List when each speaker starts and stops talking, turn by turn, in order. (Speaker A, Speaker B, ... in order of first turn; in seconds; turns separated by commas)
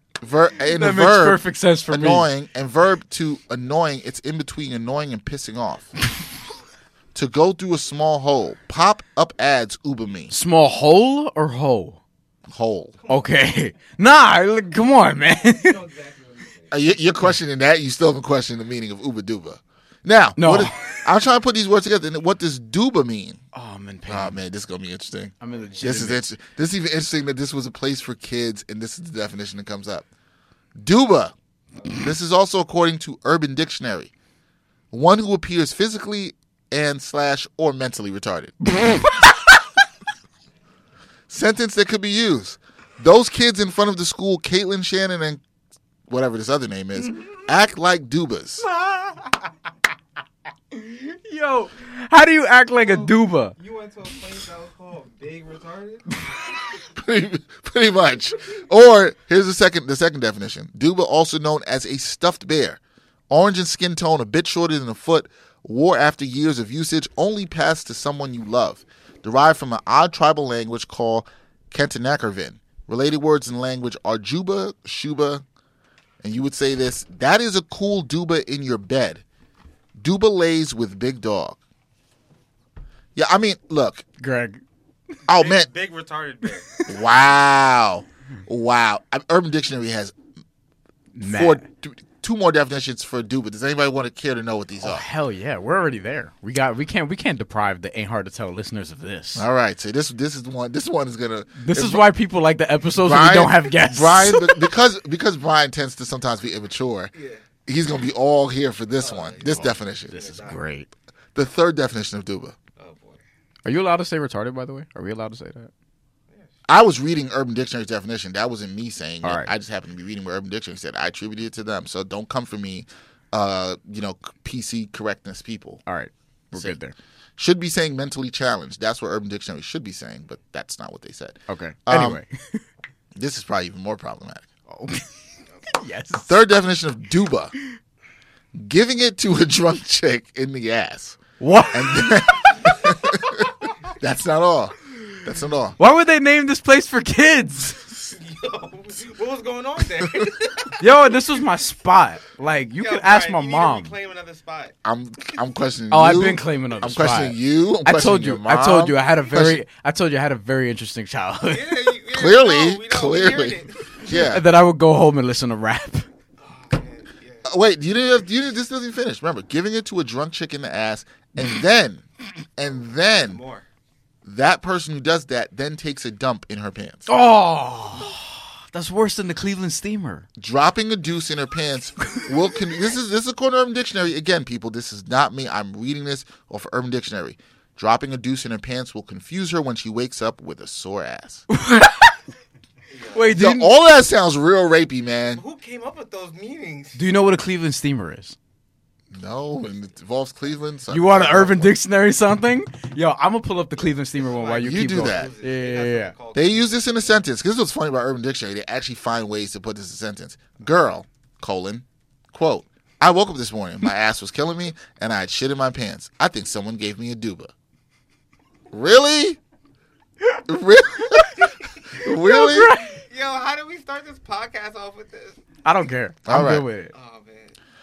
Speaker A: 0.2-6.0, Speaker B: 0.7-2.3, Speaker A: 7.2-10.3, Speaker B: 10.3-12.0, Speaker A: 12.5-13.0, Speaker C: 13.0-13.6, Speaker B: 13.1-15.8, Speaker C: 15.4-16.8, Speaker A: 16.7-23.4, Speaker B: 20.4-21.0, Speaker B: 23.5-24.4, Speaker A: 24.1-30.1, Speaker B: 25.4-26.2, Speaker C: 25.5-25.8, Speaker A: 30.8-31.3, Speaker A: 31.9-34.1, Speaker A: 34.9-38.8, Speaker A: 41.3-45.4, Speaker A: 46.1-48.6, Speaker B: 48.6-49.3, Speaker B: 50.7-53.6, Speaker C: 52.8-56.1, Speaker A: 56.9-75.4, Speaker A: 76.2-79.2, Speaker A: 80.0-81.6, Speaker A: 83.2-84.0, Speaker B: 84.2-84.6, Speaker A: 85.3-85.7, Speaker C: 85.3-87.2, Speaker A: 86.9-90.1, Speaker B: 91.2-91.6, Speaker A: 91.2-95.0, Speaker B: 94.8-99.5, Speaker A: 99.3-102.0, Speaker B: 101.6-104.6, Speaker A: 103.0-107.1, Speaker C: 107.1-107.4, Speaker A: 107.7-110.2, Speaker C: 109.0-110.7, Speaker B: 110.1-110.9, Speaker A: 111.3-112.5, Speaker C: 112.8-113.2, Speaker B: 113.7-115.7, Speaker A: 116.7-125.8, Speaker B: 119.2-119.5, Speaker B: 125.9-127.0, Speaker A: 127.4-132.2, Speaker B: 131.5-132.7, Speaker A: 133.2-134.5, Speaker B: 134.7-135.1, Speaker B: 135.7-136.4, Speaker A: 136.3-137.6, Speaker A: 138.5-141.2, Speaker B: 141.4-142.1, Speaker A: 141.7-145.8, Speaker B: 145.8-147.8, Speaker C: 148.1-150.9, Speaker B: 150.8-153.9, Speaker C: 152.8-154.8, Speaker A: 154.8-159.6, Speaker B: 155.9-161.9, Speaker C: 161.5-164.1, Speaker A: 162.1-164.4, Speaker B: 164.1-166.1, Speaker C: 166.4-167.5, Speaker A: 167.4-172.1, Speaker A: 172.6-173.4, Speaker C: 172.8-173.6, Speaker A: 174.2-177.1, Speaker B: 177.1-180.3, Speaker A: 180.4-191.5, Speaker B: 191.5-192.2, Speaker C: 192.9-193.4, Speaker B: 193.1-193.7, Speaker A: 193.4-195.4, Speaker C: 195.3-197.0, Speaker B: 196.9-198.4, Speaker A: 199.1-201.8, Speaker B: 200.9-206.1, Speaker C: 204.2-207.2, Speaker A: 204.6-205.3, Speaker A: 206.3-217.5, Speaker A: 218.7-219.4, Speaker A: 220.5-222.7, Speaker B: 222.2-223.0, Speaker C: 222.9-225.4, Speaker B: 225.6-226.9, Speaker A: 226.3-226.7, Speaker C: 226.9-227.6